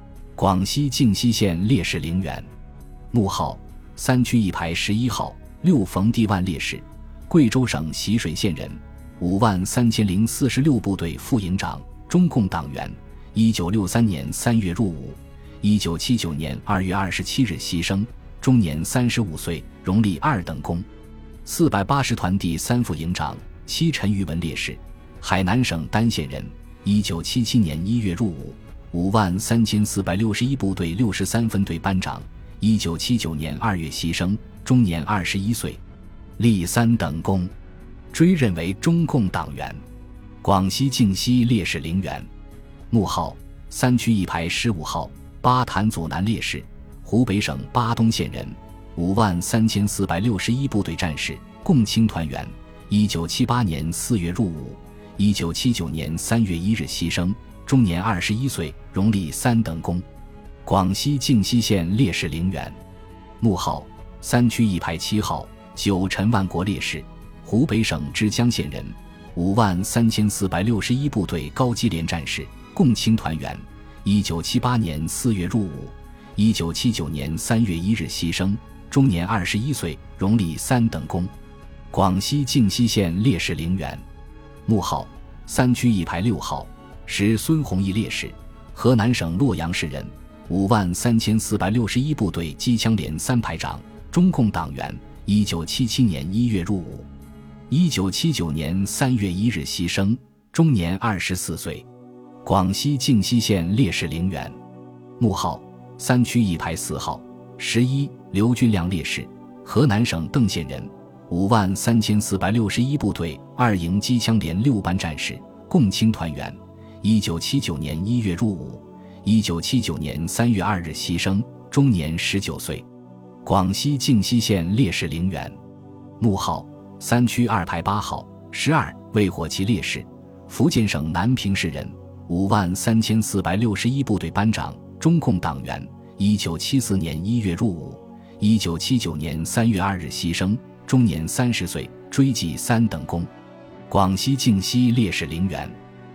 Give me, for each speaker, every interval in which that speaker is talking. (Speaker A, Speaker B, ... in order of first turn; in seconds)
Speaker A: 0.4-2.5, 3.1-20.9, 21.4-35.8, 36.4-37.5, 38.1-39.8, 40.4-42.3, 42.9-60.0, 60.6-62.8, 63.4-81.3, 81.9-84.0, 84.7-97.1, 97.7-101.8, 102.4-104.6, 105.2-122.8, 123.4-125.6, 126.2-143.3, 143.9-145.8